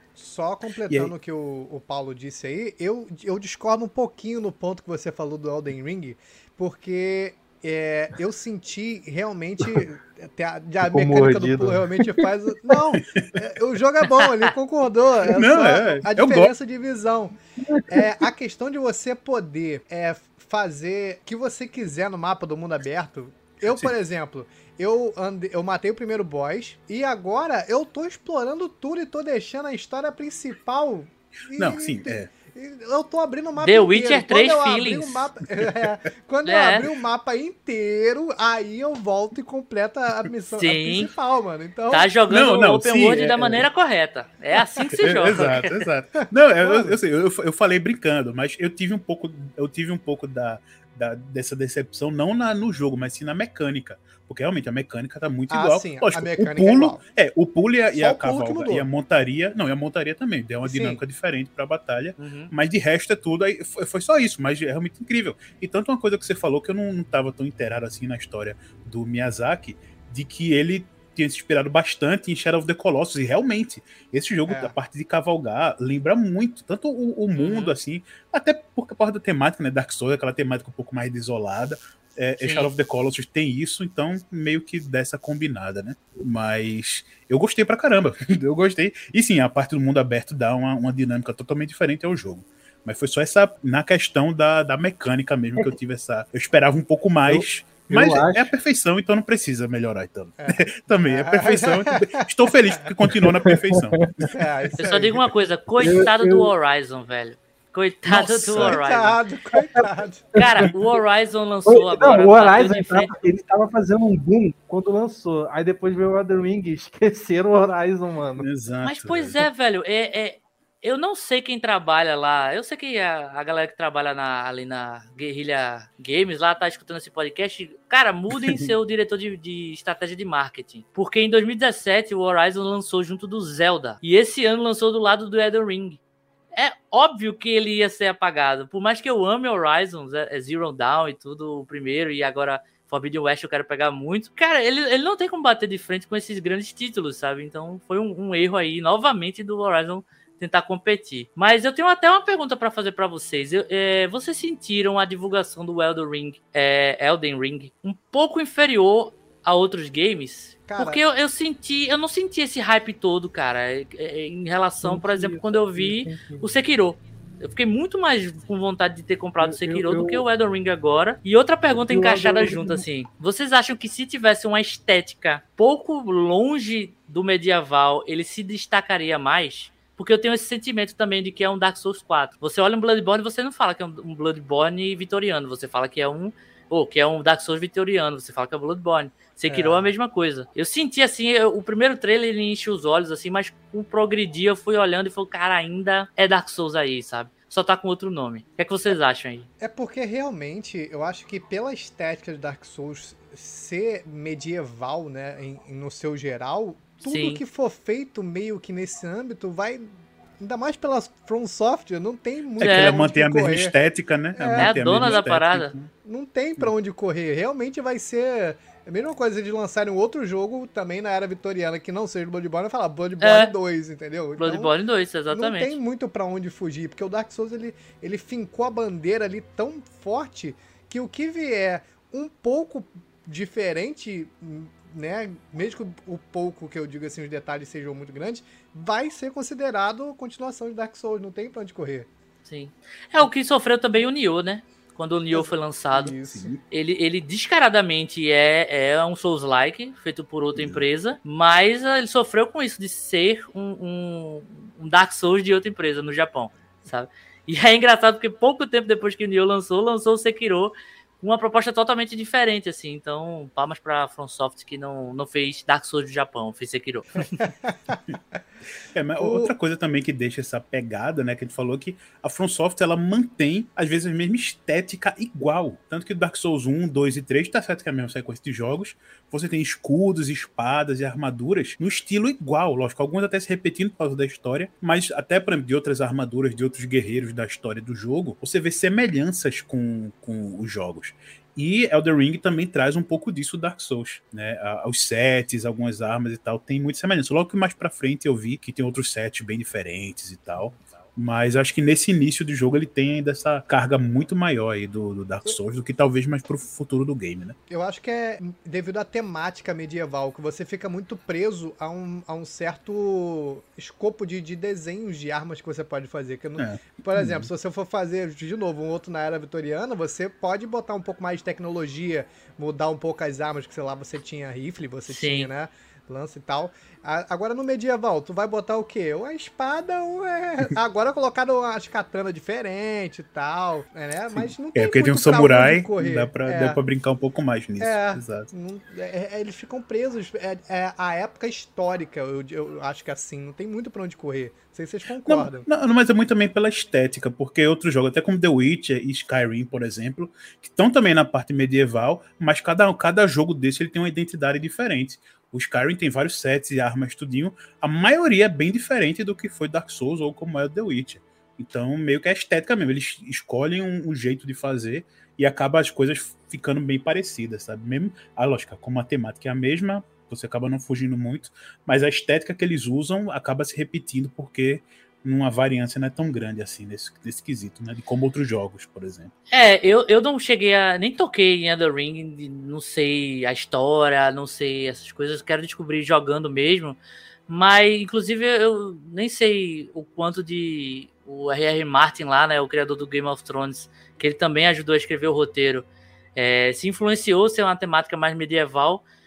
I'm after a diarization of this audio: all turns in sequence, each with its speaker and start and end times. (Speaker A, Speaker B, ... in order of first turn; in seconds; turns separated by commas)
Speaker A: 0.1-42.1, Speaker B: 10.8-11.8, Speaker C: 15.3-16.5, Speaker B: 17.7-18.0, Speaker C: 31.5-32.3, Speaker D: 33.6-35.3, Speaker D: 36.4-36.8, Speaker D: 40.5-41.1, Speaker D: 41.9-45.6, Speaker C: 42.3-43.6, Speaker C: 45.0-104.3, Speaker A: 46.6-47.0, Speaker A: 55.5-57.0, Speaker A: 57.9-58.9, Speaker A: 60.6-61.0, Speaker D: 62.2-62.5, Speaker A: 74.5-74.7, Speaker D: 77.3-77.8, Speaker D: 82.4-82.7, Speaker B: 97.3-98.5, Speaker A: 100.4-102.2, Speaker A: 104.3-105.3, Speaker D: 104.8-109.2, Speaker B: 105.8-106.5, Speaker A: 108.1-110.3, Speaker C: 108.2-108.8, Speaker B: 109.6-110.7, Speaker D: 110.3-113.1, Speaker B: 111.7-118.5, Speaker C: 118.4-119.4, Speaker D: 118.8-136.0, Speaker D: 136.5-199.5, Speaker A: 160.7-161.0, Speaker B: 164.8-166.5, Speaker B: 169.4-170.2, Speaker B: 171.9-172.8, Speaker A: 189.5-189.9, Speaker A: 199.6-213.7, Speaker D: 207.0-207.4, Speaker D: 212.6-212.9, Speaker C: 212.6-215.9, Speaker A: 214.3-215.1, Speaker D: 214.6-215.7, Speaker A: 216.0-224.7, Speaker D: 223.2-223.5, Speaker D: 224.4-225.7, Speaker A: 225.3-242.1, Speaker D: 242.4-246.1, Speaker A: 245.3-246.5, Speaker C: 246.2-246.6, Speaker D: 246.7-267.4, Speaker C: 250.6-250.8, Speaker A: 267.4-268.0, Speaker C: 268.9-307.6, Speaker A: 269.2-269.5, Speaker A: 307.7-336.8, Speaker C: 316.6-317.5, Speaker D: 325.1-325.5, Speaker C: 334.3-338.5, Speaker A: 337.8-345.7, Speaker C: 345.2-379.3, Speaker D: 379.5-399.0